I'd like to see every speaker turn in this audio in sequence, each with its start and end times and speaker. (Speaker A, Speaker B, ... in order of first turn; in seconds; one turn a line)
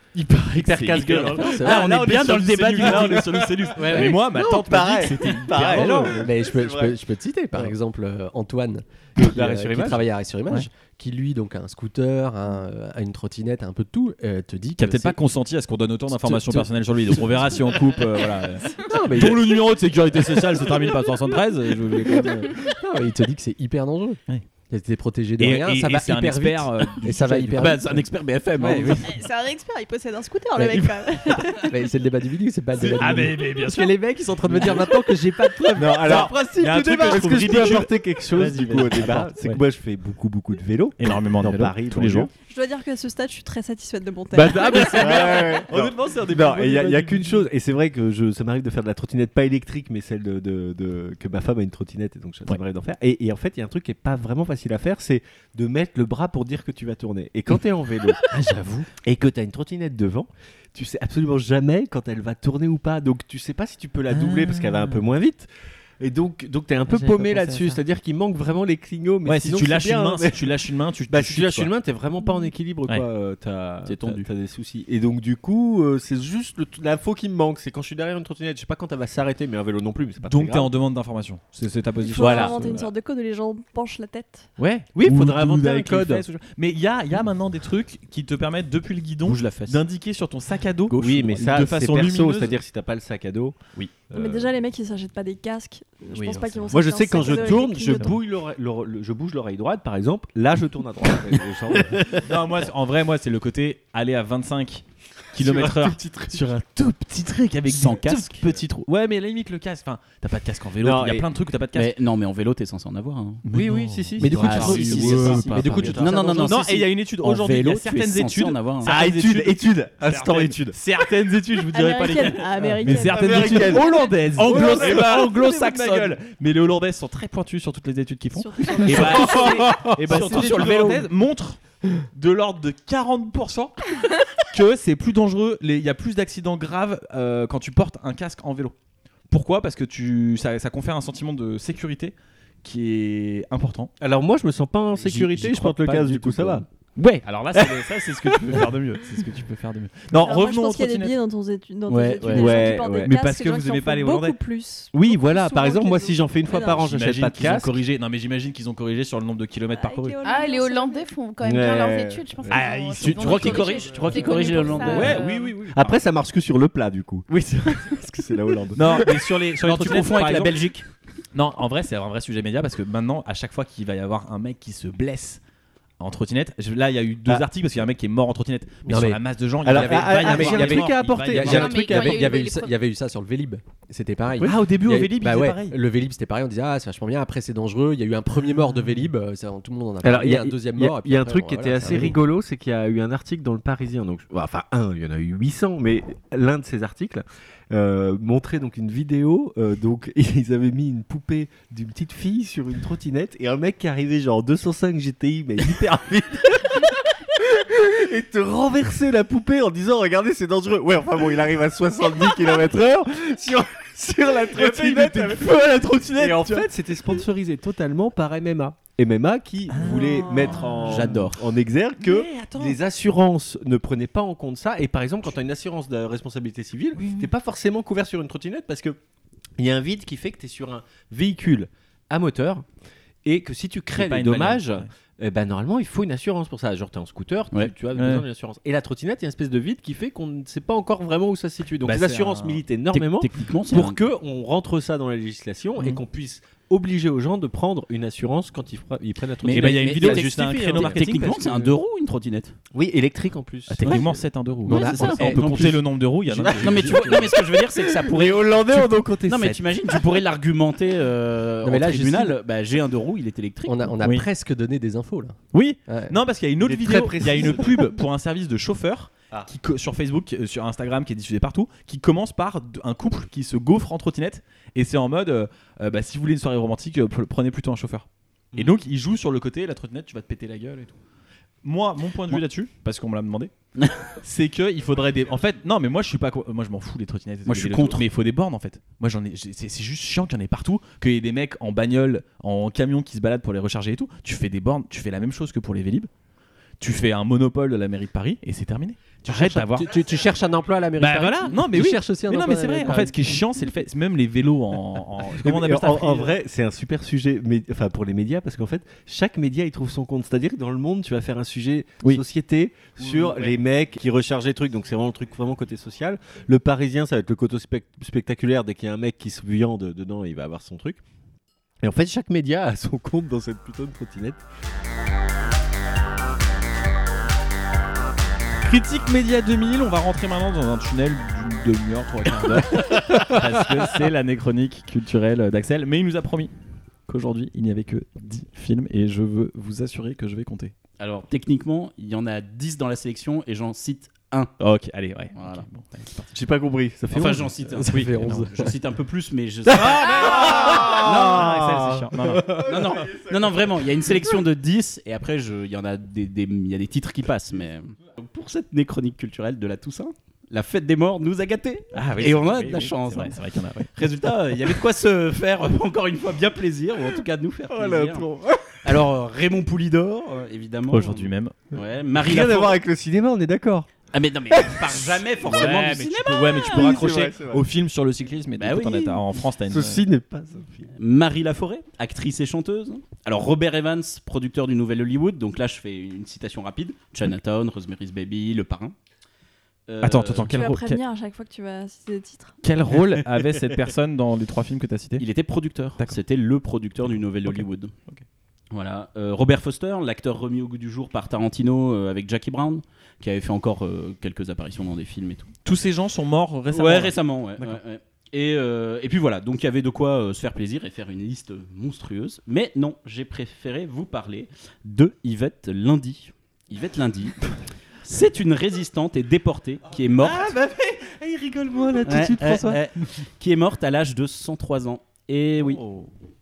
Speaker A: 0.1-7.0
Speaker B: 0.7-4.2
Speaker C: 0.9-6.1
Speaker D: 5.6-15.2
Speaker A: 9.2-10.1
Speaker C: 14.8-22.5
Speaker D: 16.1-17.6
Speaker D: 18.9-19.6
Speaker D: 22.6-28.1
Speaker C: 25.4-28.0
Speaker B: 27.5-29.1
Speaker C: 28.6-29.0
Speaker E: 29.0-31.7
Speaker D: 31.5-37.7
Speaker C: 32.8-35.0
Speaker A: 35.7-42.3
Speaker C: 35.8-39.6
Speaker D: 38.4-39.2
Speaker C: 41.0-42.3
Speaker E: 42.5-45.6
Speaker C: 44.4-47.5
Speaker A: 44.4-58.2
Speaker C: 58.3-58.9
Speaker A: 59.0-65.5
Speaker C: 64.1-65.0
Speaker A: 66.0-70.6
Speaker C: 66.9-67.8
Speaker C: 69.2-71.7
Speaker A: 71.1-80.7
Speaker B: 73.9-74.3
Speaker C: 80.2-82.9
Speaker E: 82.0-84.5
Speaker A: 82.2-82.8
Speaker B: 82.2-82.5
Speaker C: 84.6-92.6
Speaker A: 84.9-86.2
Speaker B: 89.2-89.8
Speaker A: 90.9-93.6
Speaker A: 94.1-94.5
Speaker E: 94.1-98.2
Speaker A: 96.7-102.4
Speaker C: 97.2-98.2
Speaker C: 102.2-111.9
Speaker A: 105.4-106.5
Speaker B: 107.7-108.5
Speaker A: 110.8-111.3
Speaker B: 111.7-113.4
Speaker C: 113.4-131.6
Speaker A: 113.5-116.3
Speaker D: 114.2-116.6
Speaker B: 114.4-118.9
Speaker A: 118.8-120.8
Speaker E: 121.7-124.1
Speaker A: 122.6-125.4
Speaker B: 124.5-126.1
Speaker E: 128.4-129.7
Speaker A: 128.7-131.0
Speaker B: 128.9-131.0
Speaker C: 132.1-133.9
Speaker C: 134.5-138.7
Speaker C: 139.3-143.9
Speaker A: 144.0-146.7
Speaker C: 145.0-151.1
Speaker A: 147.6-148.7
Speaker E: 150.2-156.9
Speaker A: 151.9-153.1
Speaker C: 152.2-154.4
Speaker A: 154.9-157.8
Speaker C: 156.6-160.2
Speaker E: 159.7-161.1
Speaker F: 160.2-165.3
Speaker A: 161.4-162.6
Speaker C: 162.5-165.5
Speaker B: 163.0-165.9
Speaker A: 164.8-169.2
Speaker C: 168.7-170.6
Speaker B: 169.6-170.9
Speaker C: 171.3-175.4
Speaker C: 176.0-181.9
Speaker D: 178.9-192.2
Speaker A: 179.6-182.3
Speaker F: 181.4-182.7
Speaker C: 184.4-185.8
Speaker A: 190.0-229.0
Speaker C: 191.9-192.1
Speaker C: 214.5-217.2
Speaker C: 219.7-221.2
Speaker B: 220.9-221.4
Speaker C: 222.0-222.8
Speaker C: 226.9-227.3
Speaker A: 229.6-232.6
Speaker A: 233.2-251.0
Speaker C: 233.9-234.9
Speaker C: 237.9-238.2
Speaker C: 241.8-242.6
Speaker B: 242.9-244.0
Speaker B: 249.4-252.6
Speaker C: 249.5-251.7
Speaker A: 252.7-255.7
Speaker C: 253.7-257.3
Speaker D: 254.7-255.4
Speaker B: 254.7-255.8
Speaker A: 256.3-260.1
Speaker B: 256.5-263.9
Speaker D: 261.6-262.4
Speaker D: 263.6-266.2
Speaker C: 264.0-264.2
Speaker C: 265.5-281.0
Speaker A: 266.6-267.9
Speaker C: 281.6-283.5
Speaker B: 283.8-284.1
Speaker C: 284.2-296.1
Speaker B: 287.5-288.0
Speaker C: 296.8-299.9
Speaker D: 299.2-303.4
Speaker C: 301.0-306.4
Speaker A: 305.4-321.0
Speaker C: 313.0-313.6
Speaker A: 321.8-324.4
Speaker C: 328.6-336.5
Speaker C: 337.1-340.7
Speaker B: 341.0-344.5
Speaker C: 344.6-346.3
Speaker B: 345.4-345.6
Speaker A: 346.3-347.8
Speaker B: 347.1-351.5
Speaker D: 347.8-348.7
Speaker C: 347.9-348.5
Speaker C: 349.7-352.7
Speaker A: 349.8-353.2
Speaker B: 352.5-363.4
Speaker C: 361.9-363.9
Speaker B: 363.9-368.3
Speaker A: 367.7-369.0
Speaker B: 368.9-372.8
Speaker C: 370.9-371.6
Speaker A: 372.1-373.9
Speaker B: 374.1-377.0
Speaker A: 374.5-375.2
Speaker C: 375.4-380.0
Speaker A: 376.5-377.6
Speaker B: 378.6-379.2
Speaker A: 379.7-380.9
Speaker B: 381.0-388.9
Speaker B: 389.9-390.5
Speaker C: 390.0-391.0
Speaker E: 390.5-392.5
Speaker C: 392.6-395.3
Speaker B: 395.2-397.9
Speaker C: 397.4-398.2
Speaker B: 398.7-405.5
Speaker C: 405.6-407.8
Speaker B: 406.7-417.4
Speaker B: 418.0-420.5
Speaker C: 420.2-421.0
Speaker A: 420.2-422.8
Speaker C: 421.6-422.8
Speaker B: 422.0-425.8
Speaker A: 425.6-426.1